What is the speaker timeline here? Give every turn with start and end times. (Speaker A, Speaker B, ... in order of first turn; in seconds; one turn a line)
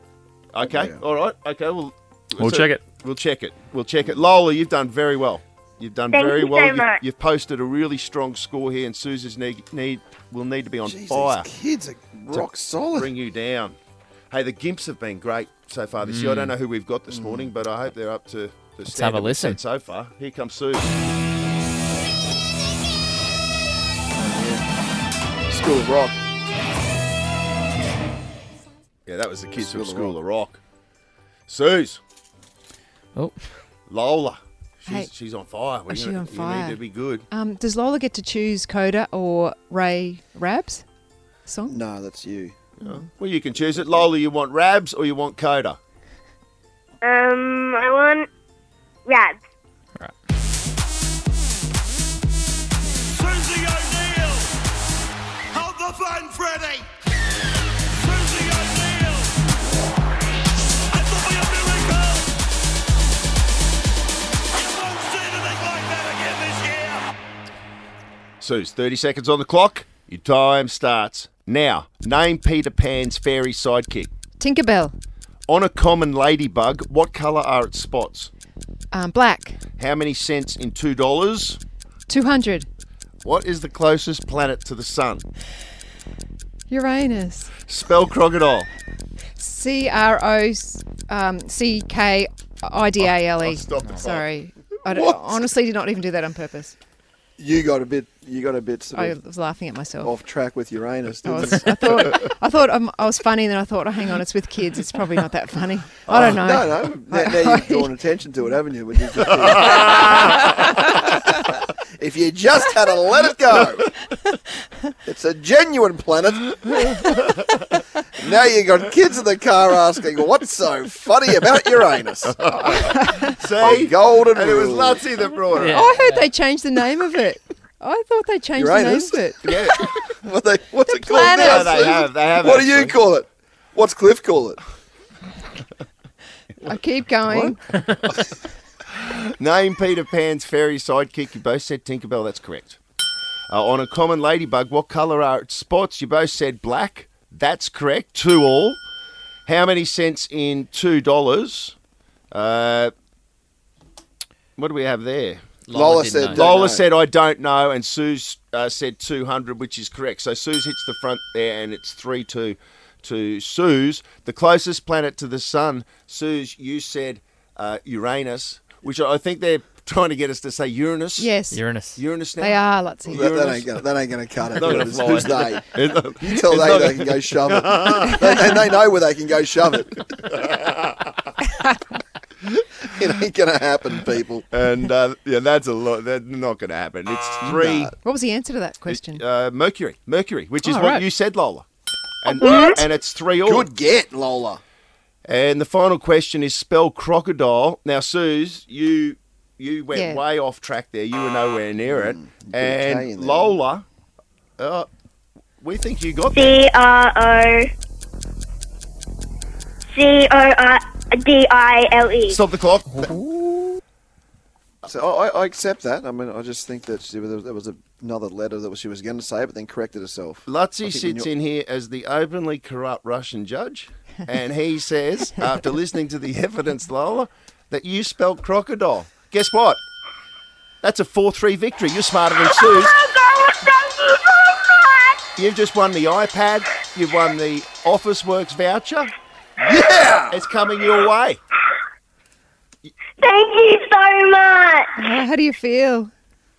Speaker A: 0.5-11.5
Speaker B: 0.6-1.0
Speaker C: 2.4-2.8
Speaker D: 6.1-7.0
Speaker B: 10.8-13.1
Speaker A: 12.3-13.8
Speaker A: 14.3-21.0
Speaker C: 16.0-16.6
Speaker B: 17.1-17.5
Speaker C: 18.9-19.6
Speaker B: 24.2-24.6
Speaker B: 25.5-26.2
Speaker A: 29.1-30.6
Speaker B: 29.5-30.2
Speaker A: 31.5-32.0
Speaker A: 33.9-37.2
Speaker E: 34.9-35.1
Speaker E: 35.9-40.8
Speaker E: 41.5-41.8
Speaker B: 41.7-42.6
Speaker A: 42.8-45.8
Speaker B: 43.5-44.1
Speaker D: 47.0-48.3
Speaker D: 49.1-49.4
Speaker F: 53.2-54.5
Speaker F: 55.5-56.8
Speaker F: 58.1-59.2
Speaker F: 61.1-62.2
Speaker F: 64.8-67.0
Speaker A: 68.4-74.1
Speaker E: 74.4-74.9
Speaker A: 75.5-78.3
Speaker E: 78.9-79.6
Speaker A: 79.8-81.6
Speaker E: 82.1-82.7
Speaker A: 83.2-85.2
Speaker E: 86.7-87.5
Speaker A: 87.7-88.7
Speaker E: 89.4-96.8
Speaker A: 93.0-94.2
Speaker C: 93.8-94.1
Speaker B: 94.9-95.4
Speaker B: 97.4-99.2
Speaker E: 99.0-100.1
Speaker B: 100.0-102.0
Speaker E: 101.2-107.9
Speaker B: 106.1-110.3
Speaker A: 109.7-110.7
Speaker B: 112.0-113.9
Speaker B: 115.0-117.0
Speaker B: 118.2-122.4
Speaker A: 122.4-125.8
Speaker E: 122.7-123.3
Speaker B: 123.6-125.2
Speaker C: 125.5-126.3
Speaker E: 125.6-129.4
Speaker B: 128.6-134.6
Speaker E: 130.9-132.0
Speaker A: 131.3-133.0
Speaker E: 136.6-137.6
Speaker A: 139.1-142.8
Speaker A: 143.5-148.8
Speaker A: 149.4-151.8
Speaker A: 152.3-152.9
Speaker A: 154.6-155.5
Speaker C: 155.7-156.8
Speaker B: 155.7-156.9
Speaker A: 156.3-171.4
Speaker E: 171.2-171.6
Speaker C: 171.5-172.0
Speaker A: 172.0-173.8
Speaker E: 172.4-173.3
Speaker B: 173.1-180.1
Speaker A: 174.6-178.5
Speaker C: 174.6-175.6
Speaker A: 180.2-180.6
Speaker B: 182.8-184.5
Speaker A: 184.5-187.9
Speaker B: 187.4-187.9
Speaker E: 188.0-189.2
Speaker A: 188.9-191.7
Speaker E: 190.6-191.1
Speaker A: 192.2-193.7
Speaker D: 192.3-192.8
Speaker B: 193.4-194.6
Speaker A: 195.2-203.9
Speaker E: 199.9-200.2
Speaker B: 201.9-203.6
Speaker A: 204.6-204.9
Speaker A: 205.6-206.6
Speaker D: 206.3-207.7
Speaker D: 209.9-212.4
Speaker A: 212.3-213.0
Speaker C: 212.9-213.8
Speaker B: 214.8-221.3
Speaker A: 220.5-229.8
Speaker A: 230.8-232.9
Speaker D: 232.4-235.2
Speaker A: 235.4-239.1
Speaker B: 239.6-240.4
Speaker A: 240.3-241.4
Speaker D: 243.2-244.9
Speaker E: 245.0-246.1